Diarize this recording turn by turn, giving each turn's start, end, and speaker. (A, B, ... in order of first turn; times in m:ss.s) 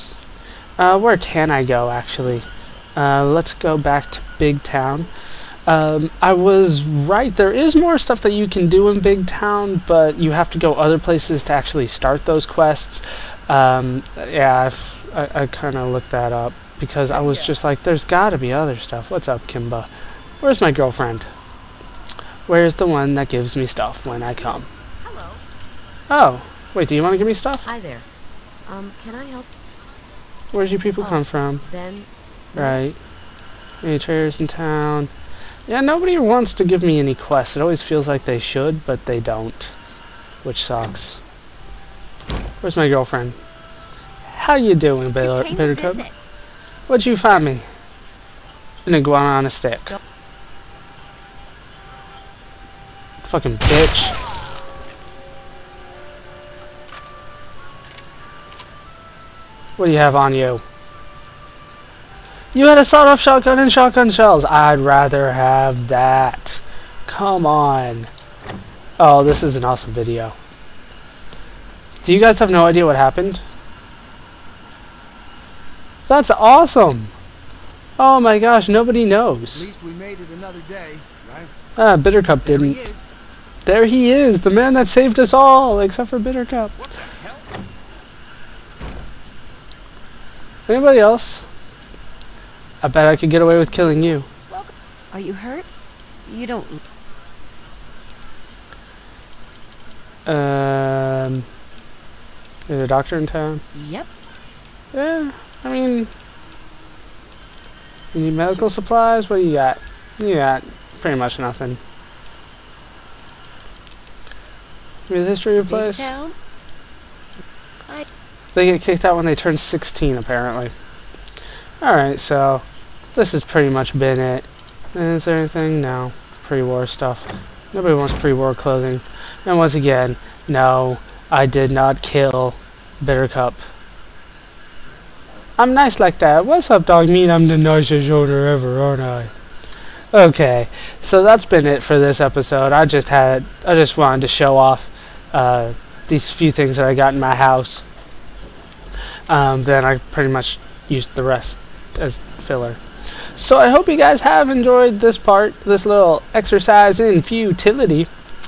0:00.8-0:05.1 A
0:05.7-0:19.9 A
0:17.1-0:17.4 B
0:20.4-0:21.3 A
0:22.5-0:24.7 A
0:24.6-0:25.4 B
0:26.1-0:27.7 A
0:27.6-0:28.0 B
0:28.6-0:29.5 B
0:30.5-0:31.6 A
0:31.0-0:32.8 B
0:32.5-0:33.0 A
0:33.8-0:35.1 A
0:35.7-0:39.7 A
0:40.4-0:41.2 A
0:42.6-0:43.4 A
0:44.2-0:46.0 A
0:45.2-0:46.1 B
0:46.9-0:47.6 A
0:48.8-0:50.0 A
0:53.2-0:54.2 A
0:59.8-1:00.6 A
1:02.5-1:08.1 A
1:09.0-1:10.4 A
1:12.0-1:13.4 A
1:16.1-1:17.1 A
1:18.0-1:19.6 A
1:19.5-1:21.5 C
1:21.8-1:22.8 A
1:22.6-1:23.0 C
1:23.6-1:26.7 A
1:27.1-1:27.4 C
1:30.7-1:31.4 A
1:32.8-1:34.2 A
1:34.5-1:35.7 B
1:36.2-1:36.8 B
1:40.2-1:41.4 A
1:42.7-1:43.6 A
1:43.7-1:44.1 B
1:44.9-1:46.1 A
1:48.1-1:51.8 A
1:55.1-1:56.1 A
1:55.7-1:56.4 B
1:58.5-2:00.7 A
2:01.8-2:02.6 A
2:03.1-2:13.6 A
2:15.6-2:19.3 A
2:20.1-2:27.8 A
2:29.3-2:32.8 A
2:33.4-2:38.1 A